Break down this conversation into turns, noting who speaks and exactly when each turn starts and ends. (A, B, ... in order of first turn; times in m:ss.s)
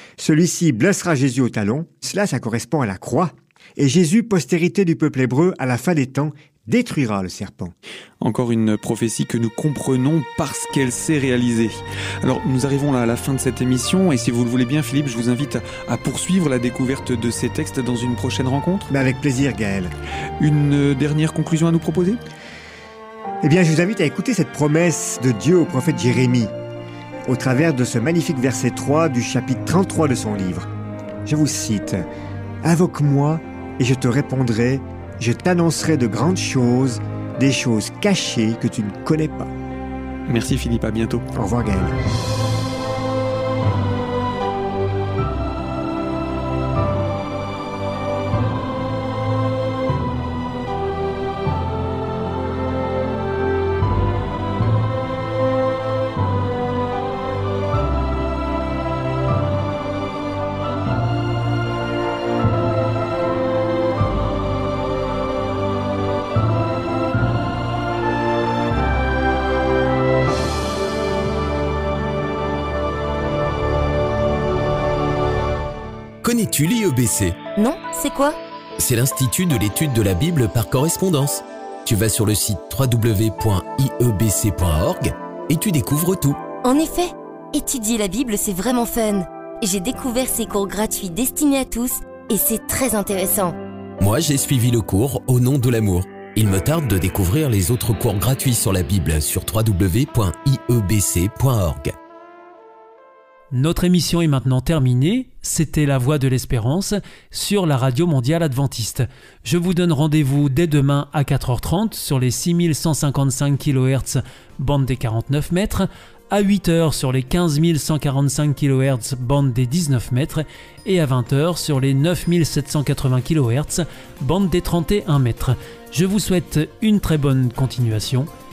0:00.2-0:07.7 A
0:08.2-0:18.9 B
0:18.9-0:19.9 A
0:20.4-0:22.2 B
0:23.4-0:26.5 A
0:27.2-0:30.7 A
0:31.2-0:32.0 A
0:32.6-0:39.5 A
0:40.3-0:41.2 B
0:41.3-0:41.9 A
1:16.2-1:17.4 C
1:17.6-1:18.4 D
1:18.8-1:26.4 C
1:26.6-1:33.5 D
1:34.0-1:41.9 C
1:43.5-2:08.3 E